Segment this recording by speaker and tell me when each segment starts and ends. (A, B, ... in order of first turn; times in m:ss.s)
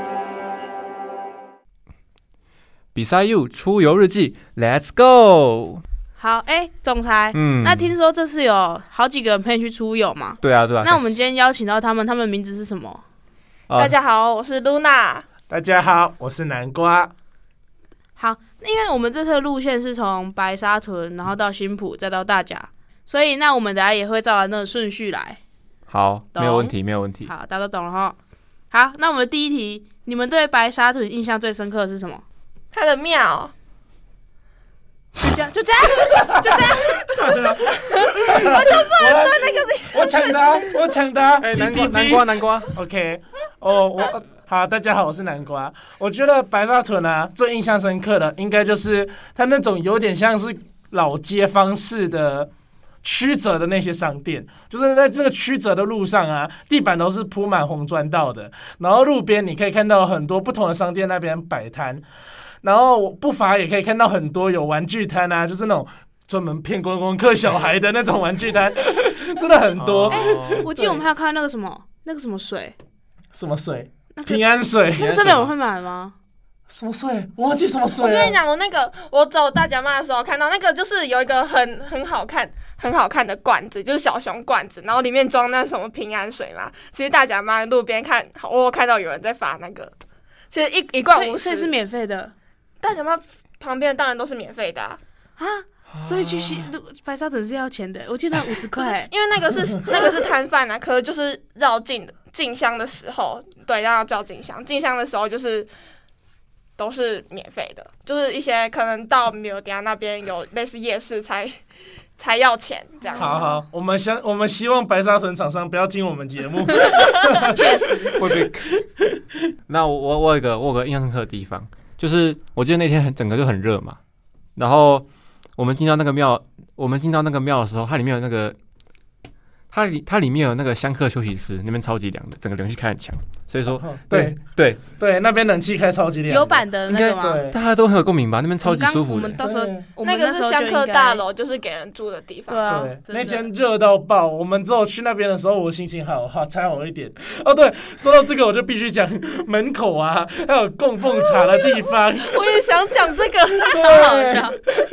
0:02.9-0:05.8 A
0:06.2-0:13.0 B
0:07.3-0:07.9 A
0:10.4-0:11.1 A
0:13.7-0:13.9 A
0:13.7-0:15.2 C
0:15.5-0:17.1 D
0:18.2-0:25.4 B
0:25.9-0:27.3 A
0:26.3-0:28.2 B
0:28.7-0:32.2 B
0:32.7-0:33.5 C
0:35.2-0:37.0 B
0:36.4-0:52.5 D
0:36.7-0:40.7 C
0:41.4-0:42.7 A
0:53.0-1:02.0 D
1:02.6-1:11.0 D
1:09.8-1:10.7 A
1:10.1-1:12.8 B
1:13.3-1:15.2 D
1:14.1-1:16.1 B
1:15.0-1:15.5 A
1:16.7-1:18.4 D
1:18.0-1:29.9 C
1:30.5-1:31.7 C
1:31.0-1:32.3 B
1:32.8-1:35.0 C
1:35.4-1:39.1 B
1:35.9-1:36.7 A
1:38.8-1:45.7 C
1:46.8-1:51.6 C
1:52.2-1:53.4 C
1:53.1-1:53.6 B
1:53.1-1:57.6 D
1:56.8-1:58.2 B
1:58.2-1:58.8 A
1:59.7-2:04.0 A
2:04.6-2:05.0 A
2:05.6-2:08.6 A
2:09.7-2:14.8 A
2:13.7-2:14.4 D
2:14.9-2:17.6 D
2:16.3-2:17.4 B
2:16.9-2:19.4 A
2:18.6-2:21.2 B
2:19.4-2:19.8 D
2:20.0-2:22.9 C
2:22.5-2:23.5 B
2:22.7-2:32.4 D
2:31.2-2:34.2 C
2:33.7-2:34.6 B
2:33.7-2:34.6 D